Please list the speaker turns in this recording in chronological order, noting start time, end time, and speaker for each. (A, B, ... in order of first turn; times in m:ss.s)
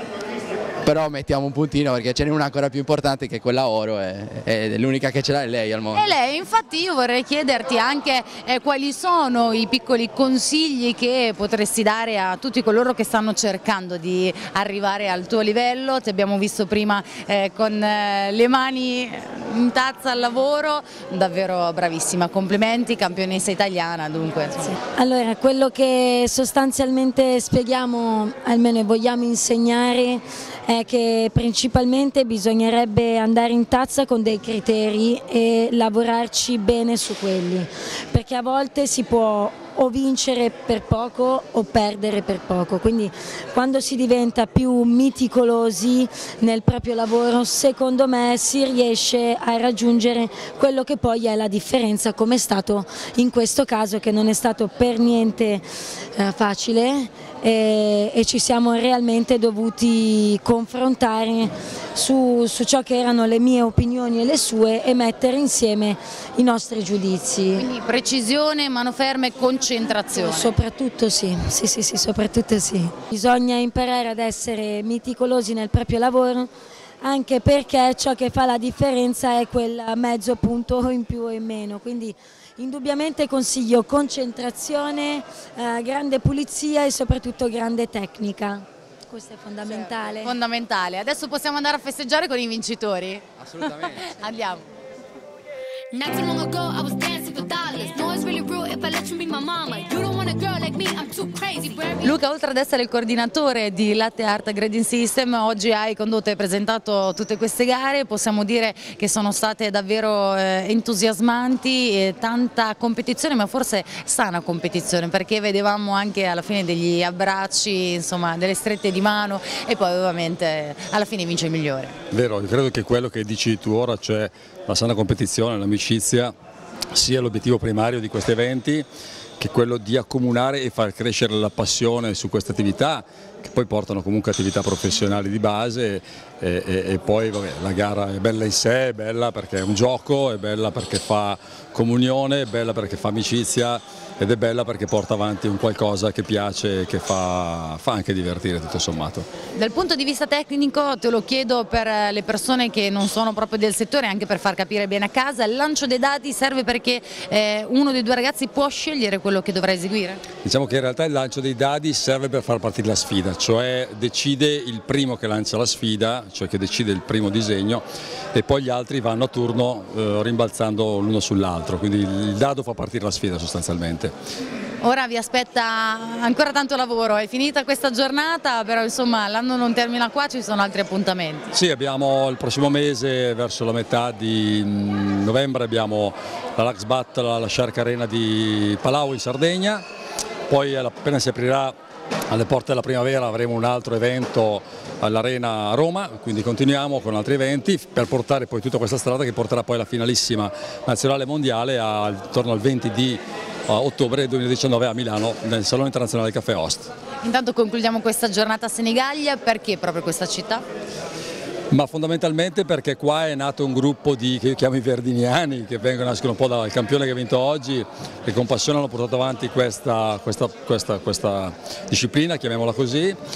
0:00.8-0:06.1 A
0:05.9-0:24.7 B
0:24.7-0:55.6 C
0:56.2-1:07.6 C
1:07.5-1:10.5 B
1:10.1-1:16.5 C
1:17.0-1:30.3 C
1:30.2-1:33.2 B
1:34.0-1:34.6 B
1:35.9-1:42.2 D
1:42.0-2:02.0 B
2:02.1-2:06.3 E
2:06.9-2:08.8 E
2:09.4-2:29.3 E
2:29.6-2:40.2 B
2:40.4-2:54.1 E
2:54.8-3:01.5 B
3:01.5-3:09.8 E
3:10.5-3:11.7 E
3:12.3-3:26.9 E
3:27.2-3:30.6 B
3:31.7-3:43.2 E